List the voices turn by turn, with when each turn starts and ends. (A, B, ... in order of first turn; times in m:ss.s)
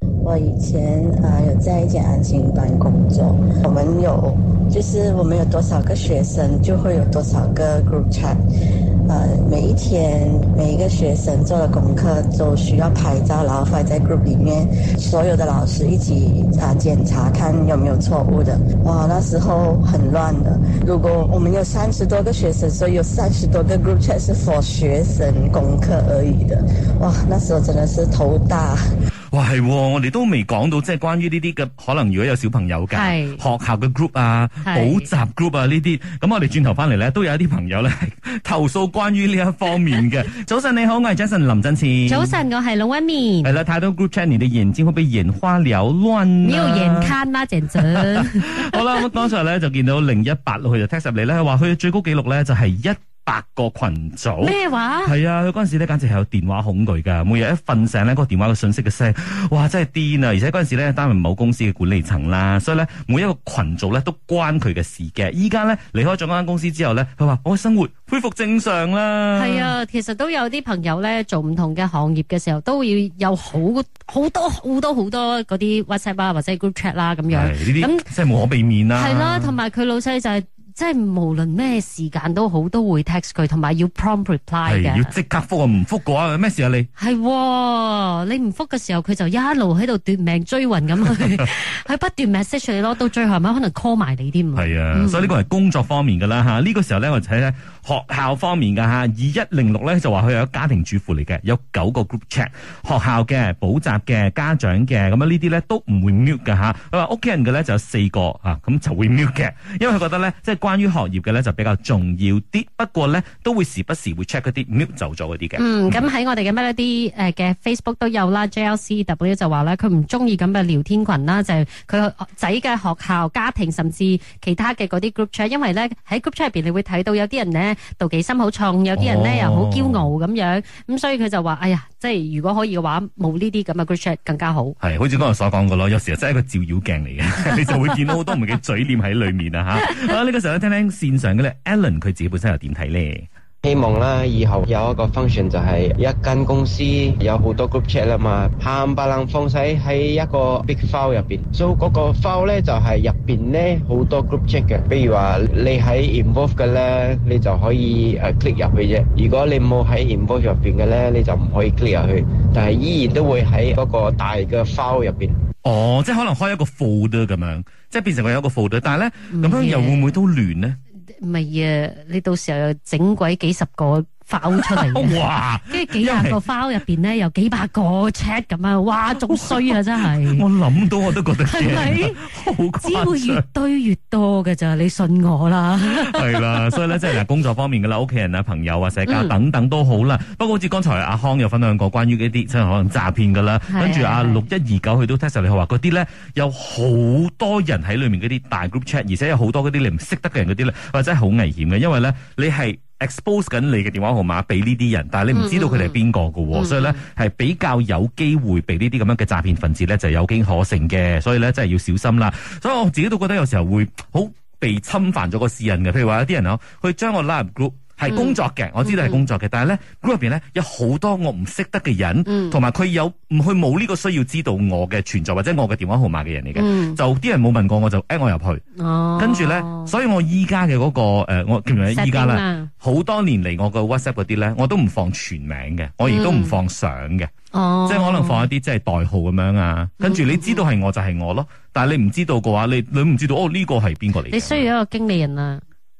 0:00.2-0:08.4 A
0:09.1-0:28.8 A
0:29.3-0:42.3 B
0:32.9-0:33.4 C
0:34.6-0:35.1 C
0:42.1-0:43.5 C
0:43.4-0:47.1 B
0:46.4-0:49.0 C
0:47.8-1:09.7 B
0:54.4-0:55.1 C
1:09.3-1:18.1 C
1:17.3-1:19.6 B
1:18.9-1:25.1 C
1:24.6-1:26.9 B
1:27.0-1:35.3 C
1:34.5-1:56.1 B
1:55.6-2:14.7 C
2:08.9-2:10.1 B
2:14.8-2:23.2 B
2:23.6-2:45.4 D
2:45.6-2:50.8 B
2:49.3-2:50.1 C
2:51.2-3:00.5 C
2:54.6-2:56.4 B
2:59.2-3:03.4 B
3:01.4-3:07.2 C
3:05.8-3:48.6 B
3:09.0-3:09.3 C
3:13.7-3:14.4 C
3:25.3-3:26.0 C
3:26.5-3:27.0 C
3:38.1-3:39.2 C
3:42.3-3:42.6 C
3:46.5-3:47.0 C
3:48.8-3:49.9 C
3:49.2-3:57.3 B
3:51.9-3:52.7 C
3:56.0-3:56.6 C
3:57.5-3:58.5 C
3:57.8-4:04.7 B
4:00.0-4:00.6 C
4:04.3-4:05.6 C